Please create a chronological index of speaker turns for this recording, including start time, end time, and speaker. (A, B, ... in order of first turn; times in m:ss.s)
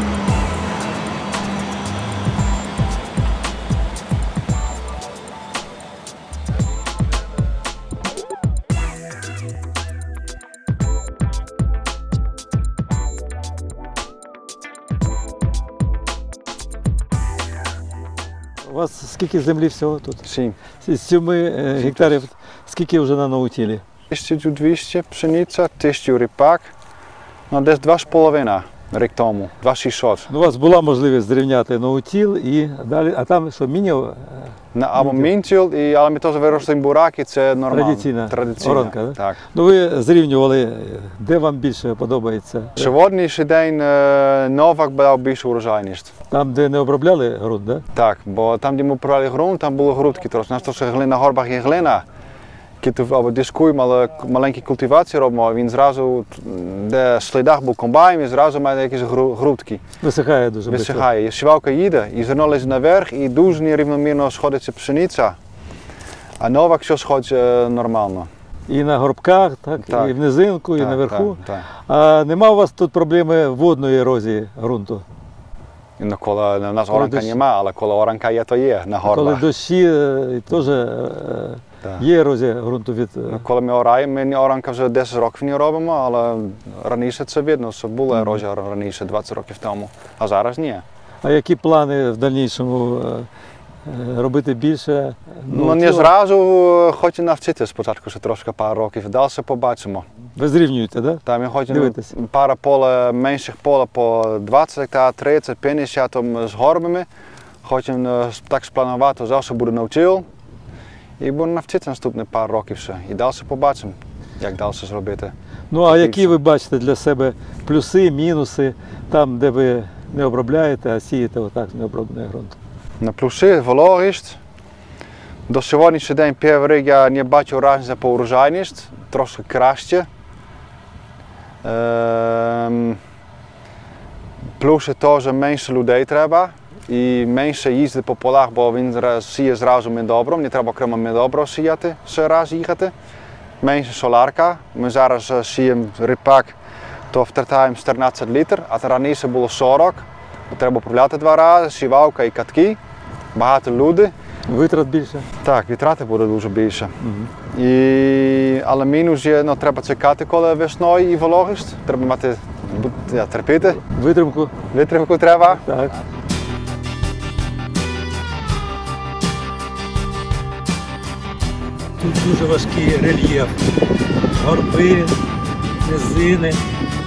0:18.6-0:20.2 A
0:20.2-0:20.6 B
0:20.8-0:23.8 A
0:21.8-0:22.2 B
0:24.1-0:26.7 B
0:27.5-0:30.3 B
0:30.3-0:35.3 A
0:34.7-0:39.4 B
0:37.7-0:42.9 A
0:42.8-0:46.1 B
0:46.3-0:47.8 A
0:47.9-0:52.0 B
0:52.8-0:59.8 B
1:00.0-1:01.0 A
1:00.7-1:05.4 B
1:06.4-1:08.3 B
1:08.7-1:15.0 A
1:09.8-1:10.1 B
1:10.8-1:11.7 B
1:16.0-1:19.4 B
1:16.9-1:17.4 A
1:19.0-1:23.4 A
1:23.3-1:30.8 B
1:31.2-1:33.3 A
1:33.8-1:36.1 A
1:35.5-1:40.0 B
1:40.4-1:42.1 A
1:41.2-1:47.1 B
1:47.6-1:50.2 B
1:51.2-1:55.3 B
1:55.7-2:02.6 A
1:55.8-1:56.4 B
2:03.0-2:04.4 B
2:05.5-2:10.1 B
2:11.6-2:13.0 B
2:14.6-2:22.9 B
2:23.6-2:26.6 B
2:27.1-2:32.8 B
2:33.3-2:34.1 B
2:34.5-2:35.2 A
2:35.4-2:36.9 B
2:37.0-2:37.3 A
2:37.5-2:43.8 B
2:43.8-2:44.5 A
2:44.7-2:45.6 B
2:45.5-2:46.0 A
2:52.0-2:53.5 A
2:54.3-2:55.1 A
2:55.8-2:56.6 A